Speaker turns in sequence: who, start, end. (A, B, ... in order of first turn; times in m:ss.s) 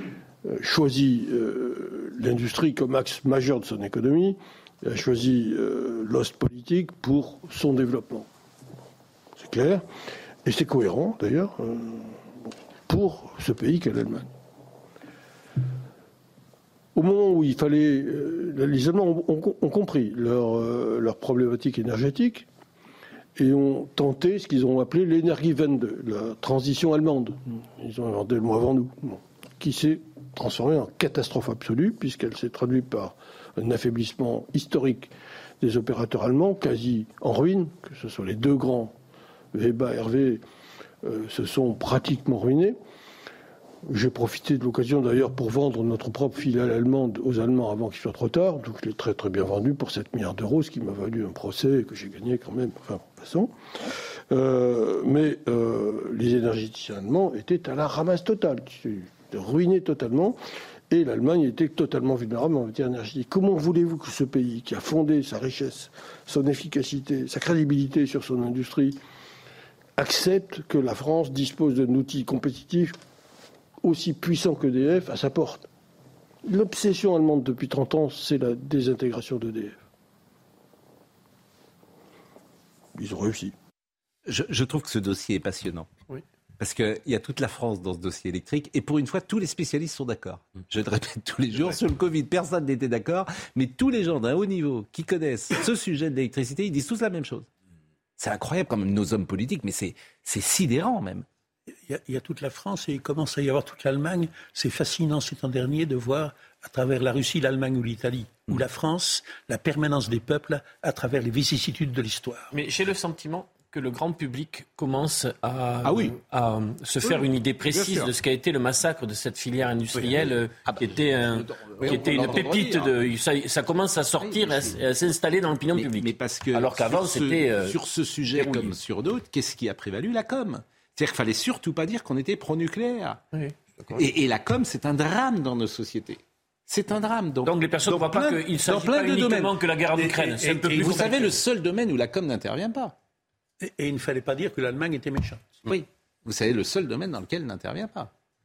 0:00.5-0:08.3 A
0:09.4-0:09.8 A
0:10.4-0:12.2 A
0:12.9-0:14.3 A
0:17.0-0:22.5 A
0:23.4-0:35.1 A
0:35.6-0:38.9 A
0:39.5-0:40.4 A
0:41.0-0:42.8 A
0:43.9-0:53.5 A
0:54.3-1:00.4 A
1:00.9-1:09.0 A
1:10.0-1:13.0 A
1:13.8-1:15.7 A
1:16.4-1:19.8 A
1:23.0-1:23.5 A
1:24.3-1:25.9 B
1:26.6-1:37.5 B
1:38.2-1:41.2 B
1:41.9-1:52.5 C
1:52.5-2:07.8 D
1:55.8-1:56.2 B
1:57.0-1:58.1 B
1:59.9-2:03.0 B
2:04.2-2:04.8 B
2:05.7-2:13.2 B
2:08.4-2:08.7 D
2:13.3-2:14.0 D
2:13.9-2:23.0 B
2:17.4-2:21.4 D
2:23.6-2:25.6 C
2:25.7-2:28.1 B